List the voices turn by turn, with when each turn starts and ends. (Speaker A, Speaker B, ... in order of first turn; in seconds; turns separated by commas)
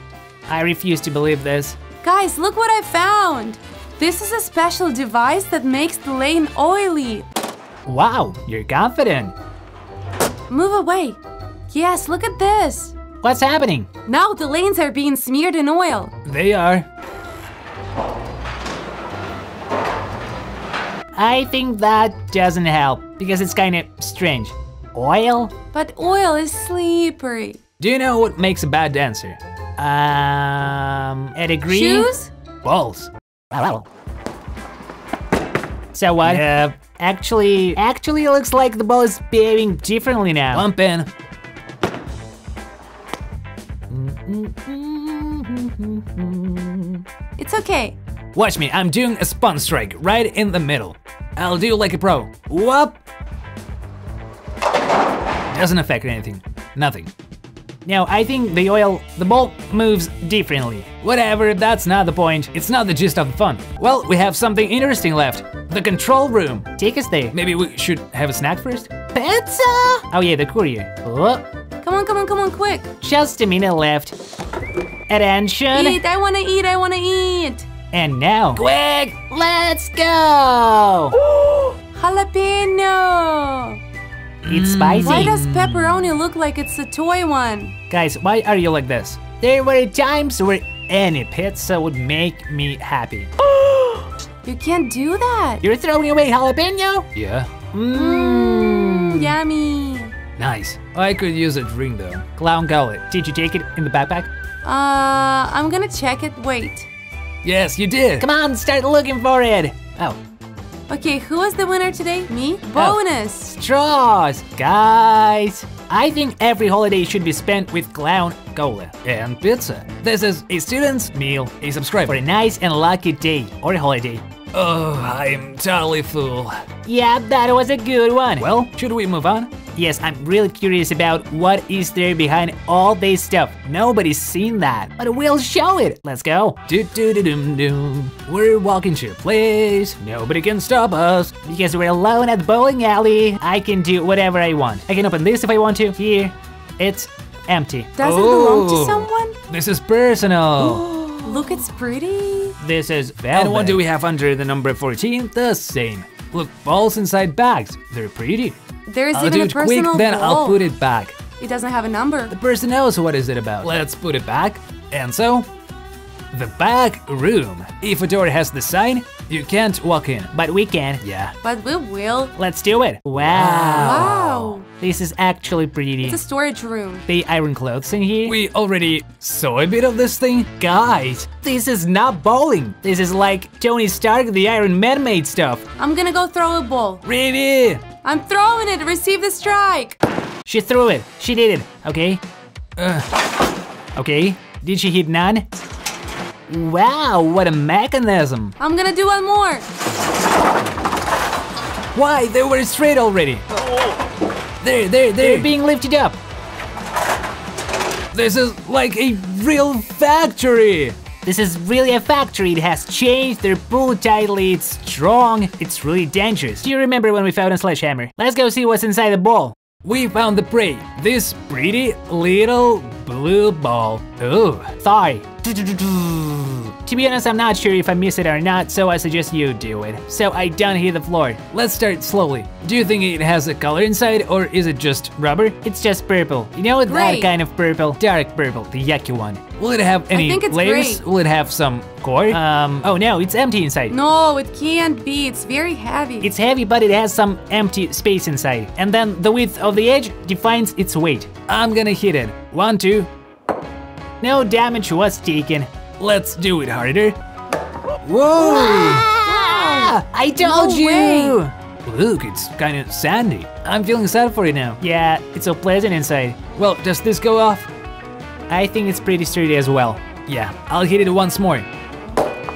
Speaker A: 0.5-1.8, Speaker B: 2.0-7.2, Speaker A: 7.8-9.3, Speaker B: 10.5-11.2, Speaker B: 11.7-12.9, Speaker A: 13.2-13.9, Speaker B: 14.1-16.1, Speaker C: 16.2-16.9, Speaker A: 21.1-25.5, Speaker B: 25.7-27.6, Speaker C: 27.8-29.4, Speaker A: 29.8-32.1, Speaker B: 31.7-32.3, Speaker C: 32.6-33.1, Speaker A: 33.5-33.8, Speaker A: 35.9-40.7, Speaker C: 36.2-36.7, Speaker C: 40.5-41.1, Speaker C: 43.9-46.4, Speaker A: 44.6-45.4, Speaker B: 47.4-48.0, Speaker C: 48.3-53.0, Speaker C: 55.5-57.1, Speaker A: 57.8-61.0, Speaker C: 61.0-66.8, Speaker A: 66.8-67.3, Speaker C: 67.3-69.1, Speaker A: 69.1-71.4, Speaker B: 71.8-72.9, Speaker A: 73.0-74.1, Speaker A: 75.1-76.0, Speaker B: 75.7-77.7, Speaker A: 77.9-78.6, Speaker C: 78.5-79.3, Speaker A: 79.3-81.2, Speaker B: 81.9-83.8, Speaker C: 84.4-86.0, Speaker A: 84.4-85.4, Speaker B: 85.0-87.7, Speaker A: 87.9-93.3, Speaker B: 94.4-95.6, Speaker A: 95.6-97.1, Speaker C: 97.1-97.5, Speaker A: 97.7-99.4, Speaker B: 97.9-100.1, Speaker C: 100.4-102.7, Speaker A: 102.4-104.3, Speaker B: 104.6-106.9, Speaker C: 107.4-108.3, Speaker A: 108.2-110.2, Speaker B: 110.9-113.5, Speaker A: 112.8-118.9, Speaker C: 119.0-122.2, Speaker A: 122.1-124.2, Speaker C: 124.5-126.6, Speaker A: 126.8-128.6, Speaker C: 128.4-129.6, Speaker A: 129.7-136.7, Speaker C: 136.7-141.3, Speaker A: 141.3-148.0, Speaker B: 148.0-149.3, Speaker C: 148.0-151.0, Speaker A: 150.7-151.1, Speaker B: 151.2-152.6, Speaker A: 152.6-153.8, Speaker C: 153.3-158.6, Speaker B: 158.9-160.6, Speaker C: 159.1-161.2, Speaker B: 161.4-162.3, Speaker C: 162.3-165.5, Speaker C: 166.3-170.3, Speaker A: 170.3-171.0, Speaker C: 171.0-171.3, Speaker B: 171.4-172.3, Speaker A: 172.3-174.1, Speaker C: 173.2-174.6, Speaker B: 173.6-174.7, Speaker A: 174.7-176.2, Speaker B: 176.0-177.0, Speaker A: 177.1-178.4, Speaker C: 178.2-181.4, Speaker A: 181.3-185.6, Speaker B: 185.8-187.0, Speaker C: 187.0-187.8, Speaker B: 188.0-190.0, Speaker A: 190.4-192.2, Speaker C: 192.8-193.1, Speaker A: 193.9-195.6, Speaker A: 196.5-198.6, Speaker B: 198.6-199.7, Speaker C: 201.9-203.4, Speaker C: 204.6-205.5, Speaker A: 205.2-206.2, Speaker C: 208.1-211.0, Speaker A: 211.2-219.6, Speaker C: 219.8-224.8, Speaker A: 224.8-231.4, Speaker C: 231.5-235.6, Speaker A: 235.4-239.4, Speaker B: 236.8-237.3, Speaker C: 239.5-242.4, Speaker B: 240.1-241.0, Speaker A: 242.3-244.0, Speaker B: 243.9-246.3, Speaker A: 246.2-251.3, Speaker C: 251.5-253.1, Speaker A: 254.2-255.7, Speaker C: 256.0-257.2, Speaker C: 258.0-259.1, Speaker A: 258.4-261.5, Speaker B: 259.2-261.4, Speaker C: 261.8-264.8, Speaker A: 264.8-266.4, Speaker C: 266.5-267.7, Speaker A: 268.5-270.0, Speaker C: 270.3-271.7